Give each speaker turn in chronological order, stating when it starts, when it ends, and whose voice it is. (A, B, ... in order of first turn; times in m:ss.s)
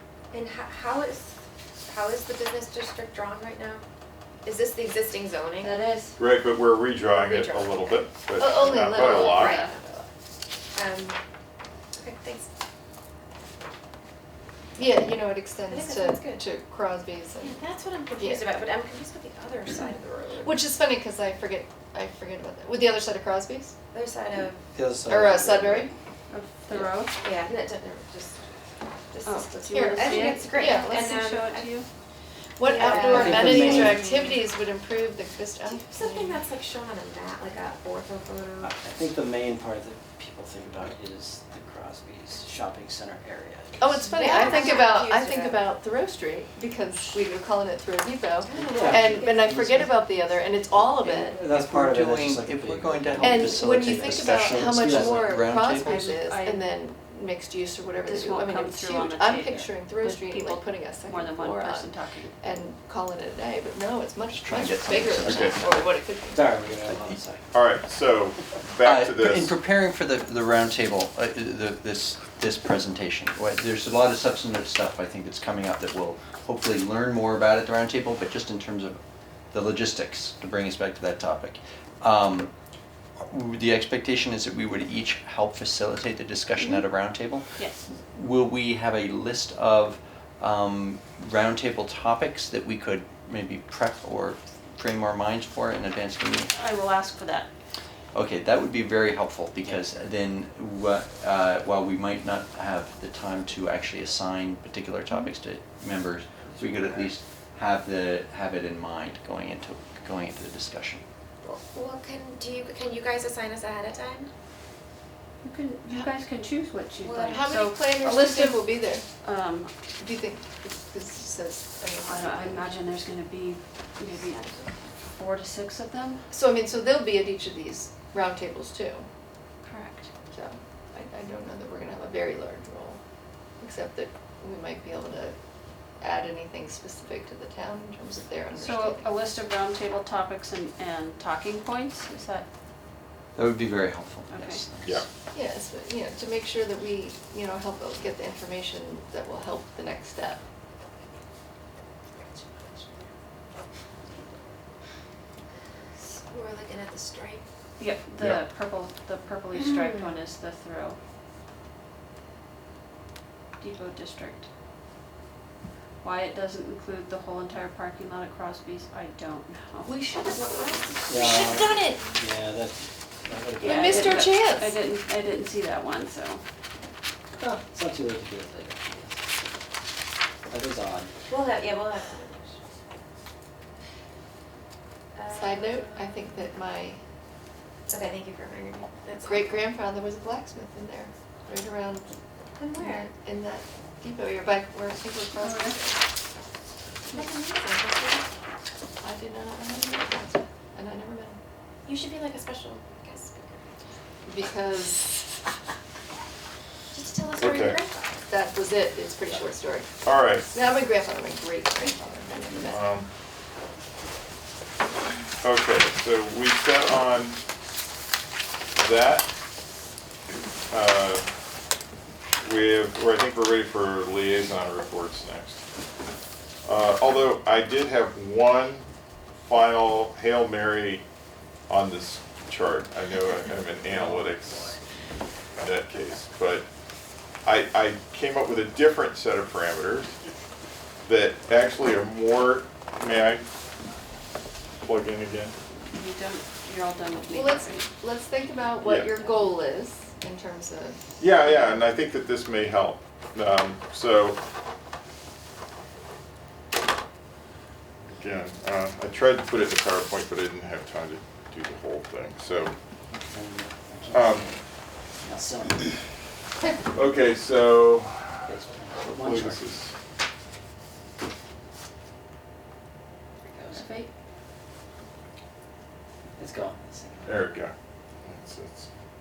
0:00.3-0:01.4 A
0:01.9-0:03.8 A
0:04.4-0:05.7 A
0:05.6-0:06.2 B
0:06.2-0:09.6 C
0:07.1-0:08.2 A
0:08.4-0:09.6 D
0:08.7-0:10.1 A
0:09.3-0:09.7 B
0:10.7-0:11.2 A
0:12.0-0:12.5 A
0:14.8-0:17.6 D
0:15.7-0:16.4 A
0:17.4-0:20.6 A
0:18.2-0:18.5 D
0:20.4-0:23.7 D
0:23.9-0:24.7 A
0:24.8-0:25.9 E
0:25.1-0:25.9 D
0:26.3-0:27.2 B
0:27.2-0:28.4 A
0:29.1-0:31.7 A
0:29.2-0:31.9 B
0:29.7-0:31.1 D
0:32.6-0:36.4 D
0:32.6-0:34.0 A
0:32.9-0:34.1 E
0:33.8-0:34.3 B
0:35.7-0:38.7 A
0:38.6-0:44.0 E
0:43.8-0:51.4 D
0:44.1-0:45.6 A
0:48.4-0:49.5 A
0:48.7-0:50.1 E
0:51.0-0:56.1 F
0:51.2-0:55.2 E
0:53.2-1:01.9 D
0:55.8-0:56.7 B
0:58.0-1:02.6 B
0:59.4-0:59.7 E
1:02.4-1:06.5 D
1:04.3-1:05.6 F
1:05.2-1:05.6 C
1:06.3-1:07.5 E
1:07.5-1:09.6 C
1:08.8-1:19.0 F
1:19.5-1:22.5 F
1:23.2-1:27.6 F
1:27.6-1:27.8 B
1:28.1-1:36.5 F
1:36.5-1:37.5 B
1:38.1-1:51.0 F
1:46.5-1:47.1 E
1:51.4-1:54.3 A
1:55.4-1:59.7 B
1:57.0-1:57.5 A
1:57.2-1:59.0 D
2:00.0-2:02.7 D
2:02.0-2:04.4 B
2:04.1-2:04.7 A
2:05.1-2:06.2 B
2:06.3-2:09.1 D
2:09.6-2:10.1 B
2:10.3-2:13.0 D
2:13.6-2:15.4 D
2:16.0-2:19.1 D
2:18.6-2:22.5 B
2:23.4-2:25.0 F
2:24.3-2:24.6 B
2:25.3-2:30.4 D
2:36.0-2:37.4 A
2:37.8-2:41.0 B
2:38.2-2:38.4 C
2:39.5-2:40.2 A
2:43.6-2:44.5 B
2:46.0-2:49.9 B
2:49.8-2:52.2 A
2:51.1-2:54.4 E
2:51.2-2:52.0 D
2:53.6-2:56.4 B
2:53.6-2:54.7 D
2:57.4-2:59.2 E
3:00.5-3:01.1 E
3:01.3-3:02.6 A
3:05.2-3:06.3 A
3:05.3-3:07.0 D
3:07.9-3:09.7 A
3:09.2-3:12.1 D
3:12.6-3:13.1 A
3:12.8-3:16.0 D
3:15.4-3:15.8 B
3:17.1-3:18.3 A
3:19.0-3:21.4 D
3:21.9-3:23.8 A
3:24.3-3:25.0 D
3:26.9-3:28.2 A
3:27.4-3:27.8 C
3:28.3-3:29.9 D
3:30.0-3:30.6 C
3:30.5-3:32.9 D
3:32.6-3:33.1 C
3:35.4-3:37.4 C
3:38.8-3:39.3 C
3:40.7-3:41.3 C
3:42.4-3:45.6 C
3:46.6-3:48.9 C
3:49.4-3:51.0 C
3:51.7-3:54.8 C
3:53.9-3:54.8 E
3:55.6-3:56.6 C
3:57.4-4:00.2 C
4:01.0-4:03.4 C
4:04.8-4:05.5 C
4:05.9-4:07.9 B
4:07.3-4:11.8 D
4:08.8-4:09.2 C
4:11.2-4:14.4 C
4:18.1-4:22.7 C
4:23.1-4:24.6 E
4:24.1-4:24.5 C
4:25.2-4:25.9 E
4:26.9-4:29.9 C
4:28.5-4:29.6 E
4:33.4-4:34.0 E
4:33.7-4:34.1 B
4:36.4-4:37.5 E
4:37.2-4:37.7 C
4:38.2-4:38.9 C